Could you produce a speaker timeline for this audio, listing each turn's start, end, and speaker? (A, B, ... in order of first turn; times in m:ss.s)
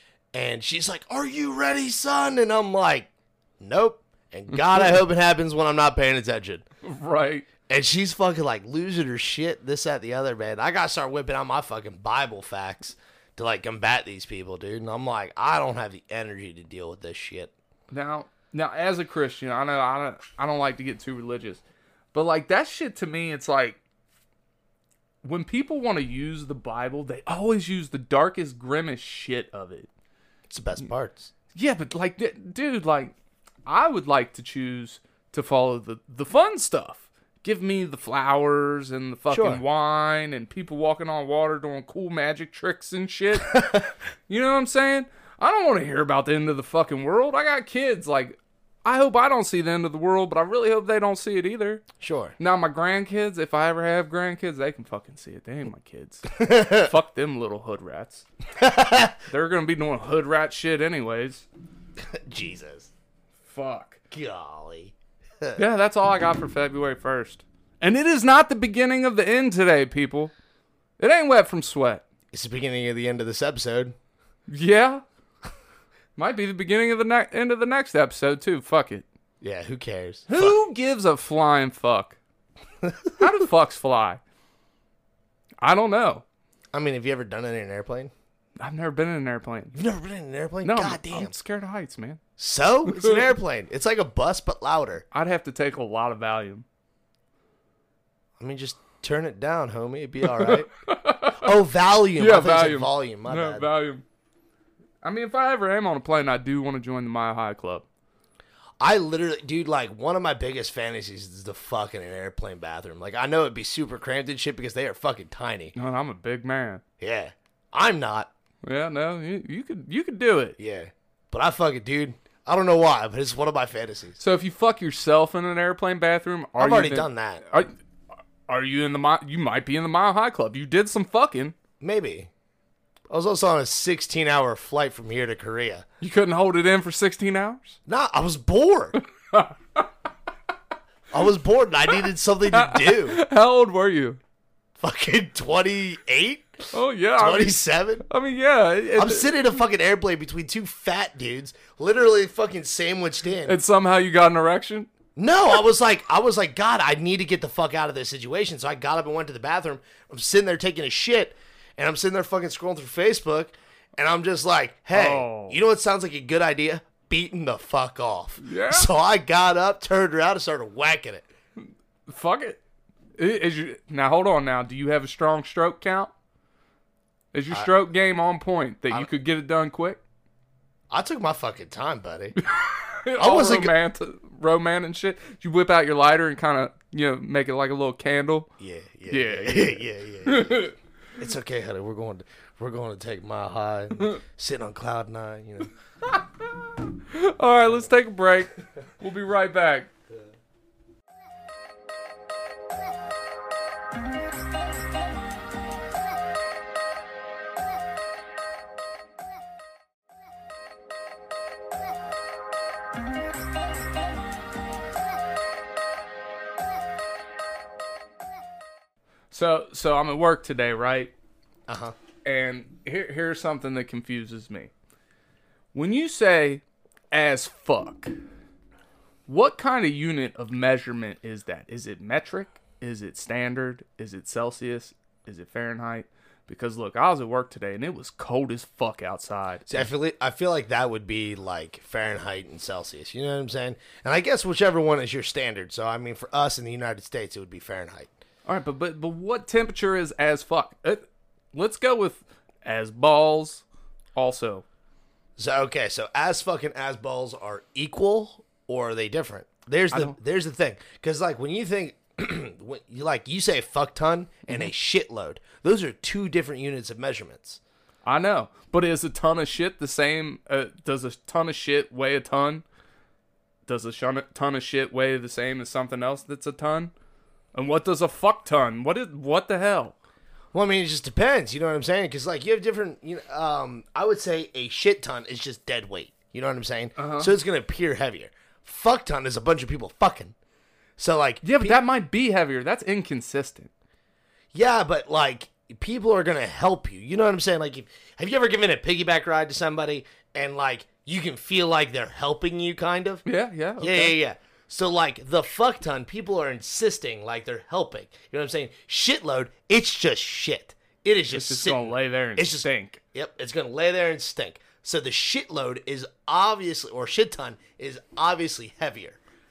0:00.3-0:06.6 A
0:06.8-0:07.5 B
0:07.7-0:17.5 A
0:17.9-0:21.6 B
0:22.1-0:23.8 B
0:25.2-0:29.9 B
0:30.5-0:31.3 A
0:31.5-0:33.2 B
0:33.7-0:43.7 B
0:39.3-0:39.6 A
0:43.5-0:43.9 A
0:44.3-0:51.9 B
0:52.0-0:52.4 A
0:52.4-0:58.2 B
0:56.4-0:56.9 A
0:58.6-0:59.2 A
0:59.2-1:01.5 B
1:02.0-1:02.9 A
1:03.5-1:04.0 B
1:04.1-1:05.6 A
1:05.6-1:10.3 B
1:11.0-1:12.0 B
1:12.3-1:14.0 A
1:14.5-1:15.0 B
1:16.2-1:19.1 B
1:19.4-1:20.6 A
1:20.3-1:22.2 B
1:22.8-1:23.2 A
1:23.2-1:24.2 B
1:25.6-1:26.2 B
1:26.7-1:28.1 A
1:28.6-1:29.8 B
1:29.7-1:31.3 A
1:30.6-1:32.2 B
1:32.4-1:35.0 A
1:32.9-1:33.2 B
1:35.1-1:36.6 B
1:38.4-1:40.7 A
1:40.3-1:41.6 B
1:41.3-1:43.7 A
1:42.2-1:44.0 B
1:45.0-1:47.8 B
1:48.8-1:55.7 A
1:55.8-1:56.8 B
1:57.0-1:58.3 A
1:58.6-2:00.6 B
2:00.6-2:04.2 A
2:04.2-2:07.7 B
2:06.6-2:07.4 A
2:08.5-2:11.6 B
2:11.8-2:12.3 A
2:13.1-2:15.9 A
2:16.0-2:17.8 B
2:17.9-2:19.0 A
2:19.0-2:19.9 B
2:21.1-2:23.2 A
2:22.5-2:24.2 B
2:24.8-2:28.0 A
2:26.7-2:29.3 B
2:29.0-2:33.6 A
2:33.4-2:34.9 B
2:35.2-2:51.3 A
2:44.9-2:45.6 B
2:48.4-2:48.9 B
2:51.6-2:52.6 B
2:53.2-2:56.1 B
2:57.3-3:00.0 B
3:00.9-3:02.4 A
3:02.4-3:08.5 B
3:03.2-3:03.8 A
3:08.6-3:15.7 A
3:09.1-3:10.7 B
3:17.1-3:19.9 B
3:39.3-3:41.1 B
3:41.7-3:42.0 A
3:42.2-3:44.7 B
3:45.7-3:48.2 B
3:49.3-3:59.9 B
3:59.7-4:08.1 A
4:08.5-4:13.6 B
4:14.2-4:14.6 B
4:15.4-4:27.6 A
4:28.0-4:32.6 B
4:33.7-4:36.9 B
4:37.5-4:40.0 B
4:40.5-4:50.4 A
4:47.0-4:47.3 B
4:51.0-4:51.8 A
4:51.4-4:53.7 B
4:54.5-5:03.2 A
5:03.2-5:04.2 B
5:03.8-5:19.2 A
5:11.3-5:13.0 B